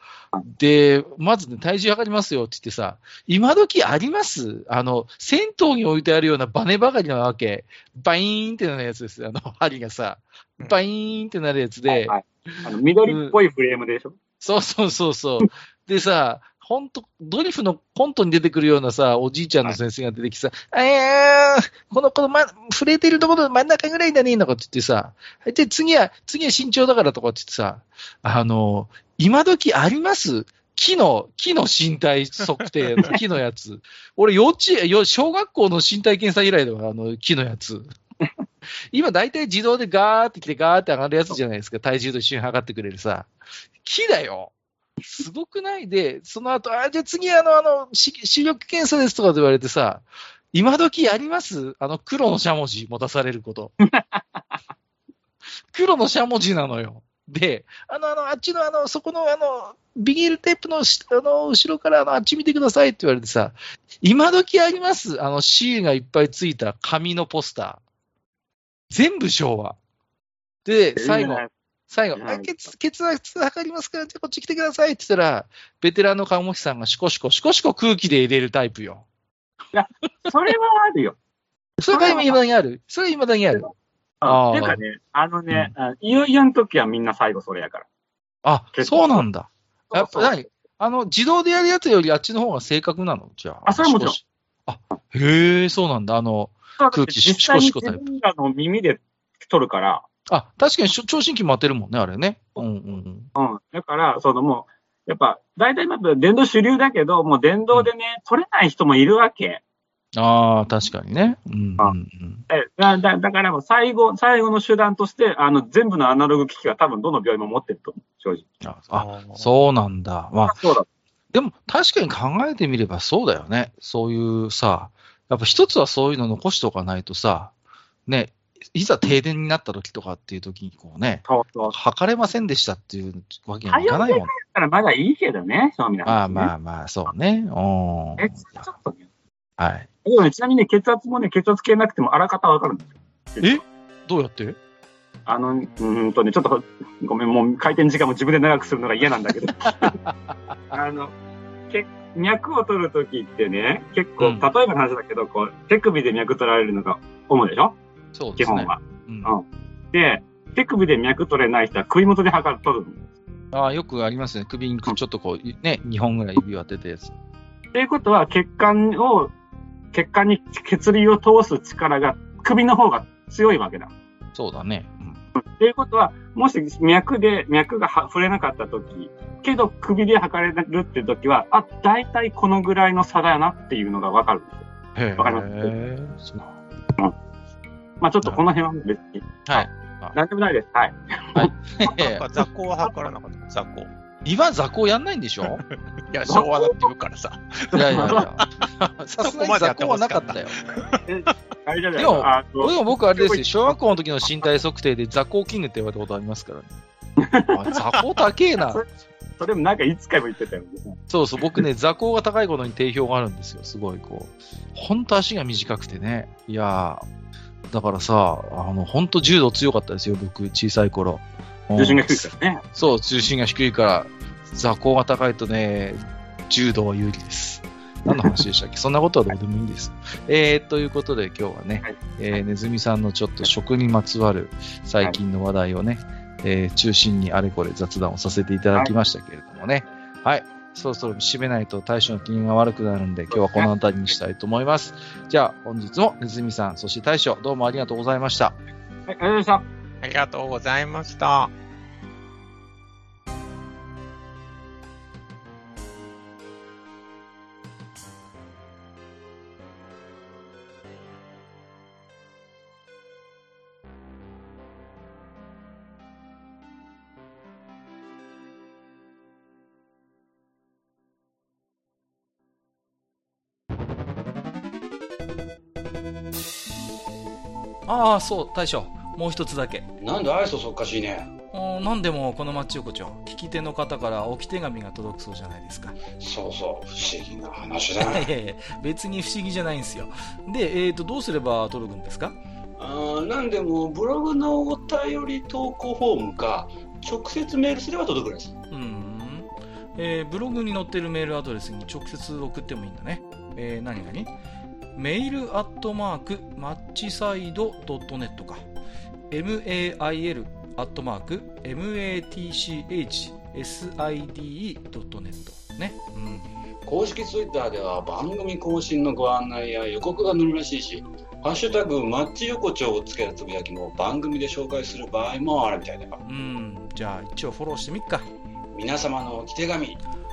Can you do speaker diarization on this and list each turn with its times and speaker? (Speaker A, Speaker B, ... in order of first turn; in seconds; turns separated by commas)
Speaker A: 0.4-13.3, Speaker B: 11.9-14.2, Speaker A: 14.4-37.9, Speaker A: 38.9-43.3, Speaker A: 43.8-44.5, Speaker A: 45.0-53.8, Speaker B: 53.8-54.6, Speaker A: 55.7-67.8, Speaker A: 68.9-69.8, Speaker A: 70.6-79.0, Speaker B: 71.0-71.5, Speaker B: 72.1-72.5, Speaker B: 79.7-81.2, Speaker A: 81.8-83.7, Speaker B: 81.9-82.4, Speaker B: 84.2-87.8, Speaker A: 84.2-84.8, Speaker A: 88.4-98.0, Speaker B: 88.7-89.2, Speaker B: 89.9-90.4, Speaker B: 93.7-94.2, Speaker B: 96.8-100.0, Speaker A: 100.3-103.3, Speaker B: 103.3-109.6, Speaker A: 110.1-112.4, Speaker B: 112.5-118.4, Speaker A: 118.6-120.6, Speaker C: 118.9-119.5, Speaker B: 120.5-120.8, Speaker A: 121.3-127.5, Speaker A: 128.1-134.3, Speaker B: 131.3-131.7, Speaker B: 133.7-136.5, Speaker A: 136.1-138.6, Speaker B: 138.2-139.0, Speaker A: 139.6-139.9, Speaker B: 140.0-143.6, Speaker A: 143.4-144.6, Speaker B: 145.2-149.9, Speaker A: 149.5-150.8, Speaker B: 150.7-151.1, Speaker B: 151.7-157.8, Speaker A: 154.2-154.5, Speaker A: 158.1-159.3, Speaker B: 158.4-163.0, Speaker A: 163.5-167.1, Speaker B: 167.7-169.3, Speaker B: 169.9-173.9, Speaker A: 174.3-175.2, Speaker B: 175.3-184.7, Speaker A: 184.9-186.6, Speaker B: 185.2-185.7, Speaker B: 188.0-191.9, Speaker A: 189.4-190.2, Speaker A: 191.3-192.2, Speaker C: 191.9-193.9, Speaker A: 194.2-195.6, Speaker C: 196.1-201.0, Speaker B: 196.3-196.8, Speaker B: 197.7-198.2, Speaker A: 197.7-198.4, Speaker A: 199.0-200.6, Speaker B: 201.1-203.8, Speaker A: 202.0-206.7, Speaker B: 207.2-207.5, Speaker A: 207.5-208.8, Speaker B: 208.6-208.8, Speaker B: 209.4-211.0, Speaker A: 211.1-217.0, Speaker A: 217.7-248.6, Speaker B: 221.8-222.6, Speaker B: 228.1-228.4, Speaker B: 243.3-243.7, Speaker B: 249.1-249.6, Speaker C: 250.0-251.5, Speaker D: 277.9-279.9, Speaker E: 280.0-281.3, Speaker D: 281.5-285.9, Speaker E: 286.1-288.3, Speaker D: 288.0-292.4, Speaker E: 292.8-298.6, Speaker D: 298.7-304.3, Speaker D: 304.9-308.6, Speaker D: 309.3-316.5, Speaker E: 316.8-326.2, Speaker D: 326.2-328.2, Speaker E: 328.7-330.0